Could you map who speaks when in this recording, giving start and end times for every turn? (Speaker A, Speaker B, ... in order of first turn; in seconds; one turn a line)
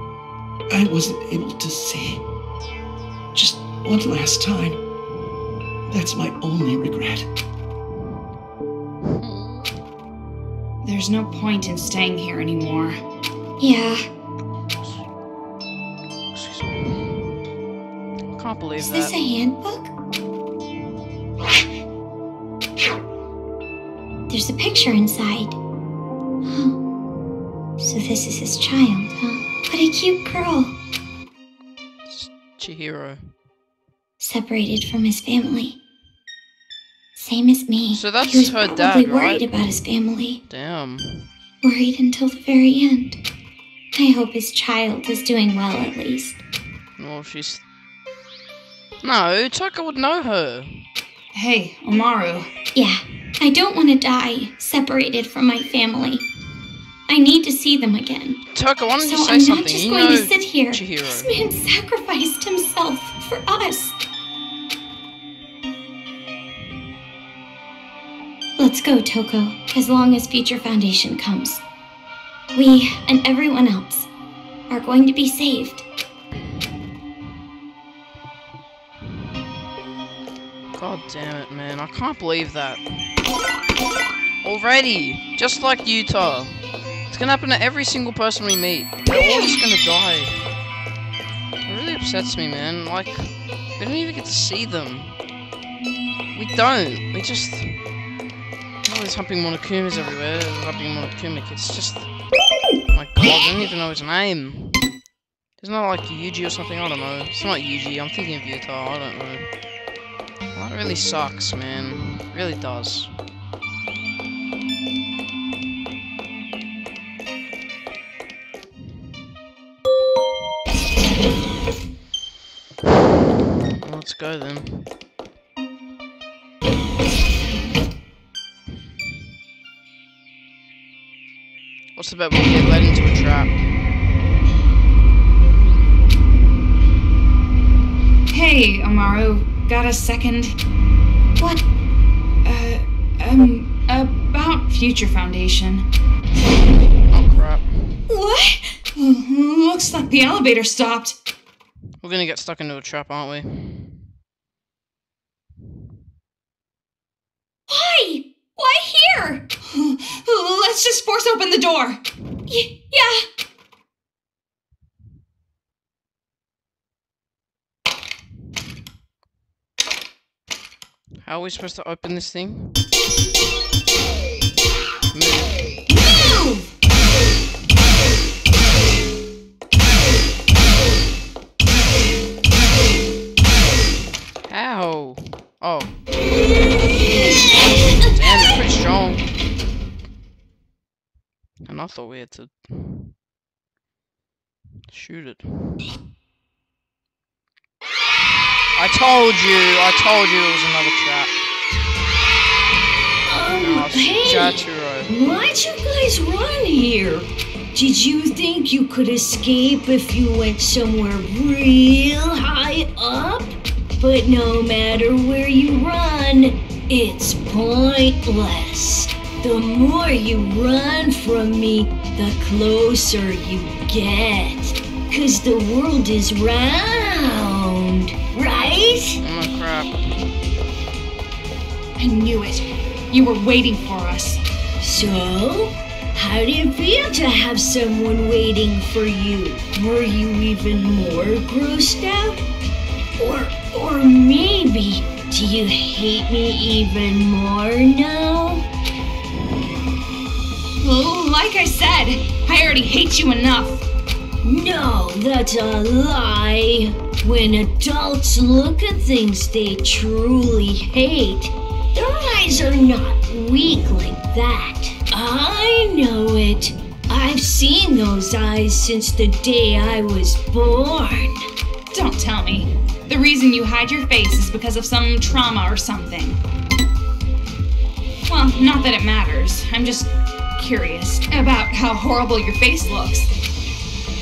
Speaker A: 0.7-2.2
Speaker A: 3.3-4.8
Speaker A: 5.9-7.3
Speaker B: 9.1-9.8
Speaker C: 10.8-13.0
Speaker D: 13.6-14.1
Speaker B: 16.3-17.1
Speaker B: 18.3-19.1
Speaker D: 18.8-19.9
Speaker D: 24.3-25.6
Speaker D: 26.5-26.8
Speaker D: 27.8-30.7
Speaker B: 32.1-33.2
Speaker D: 34.2-35.8
Speaker D: 37.2-40.4
Speaker B: 37.9-39.5
Speaker B: 40.5-41.3
Speaker D: 41.6-43.2
Speaker D: 44.0-46.4
Speaker B: 47.0-47.6
Speaker B: 49.0-50.9
Speaker C: 51.3-52.5
Speaker D: 52.8-56.3
Speaker D: 57.1-58.4
Speaker B: 58.5-61.3
Speaker D: 59.0-64.0
Speaker D: 68.6-71.6
Speaker D: 72.5-74.1
Speaker D: 74.7-75.8
Speaker B: 80.7-82.8
Speaker B: 84.4-90.3
Speaker B: 91.7-95.2
Speaker B: 96.3-97.8
Speaker B: 98.8-102.1
Speaker B: 102.9-104.8
Speaker B: 105.6-109.5
Speaker B: 110.5-113.1
Speaker B: 123.8-124.9
Speaker B: 132.0-133.5
Speaker C: 138.3-140.6
Speaker C: 142.4-145.9
Speaker B: 147.1-148.0
Speaker D: 148.1-148.8
Speaker C: 148.9-151.2
Speaker B: 152.0-154.0
Speaker D: 157.7-159.4
Speaker C: 159.6-162.0
Speaker D: 162.5-163.2
Speaker B: 171.2-172.8
Speaker B: 175.1-175.6
Speaker D: 175.9-176.7
Speaker B: 184.5-185.9
Speaker B: 188.1-189.3
Speaker B: 191.7-193.1
Speaker B: 194.9-195.8
Speaker B: 198.8-201.4
Speaker E: 203.2-229.2
Speaker B: 203.6-205.1
Speaker B: 229.2-230.1
Speaker C: 232.0-234.4
Speaker E: 234.8-242.4
Speaker E: 243.2-248.7
Speaker C: 250.8-253.8
Speaker E: 254.4-271.4
Speaker C: 271.9-276.4
Speaker C: 278.3-283.3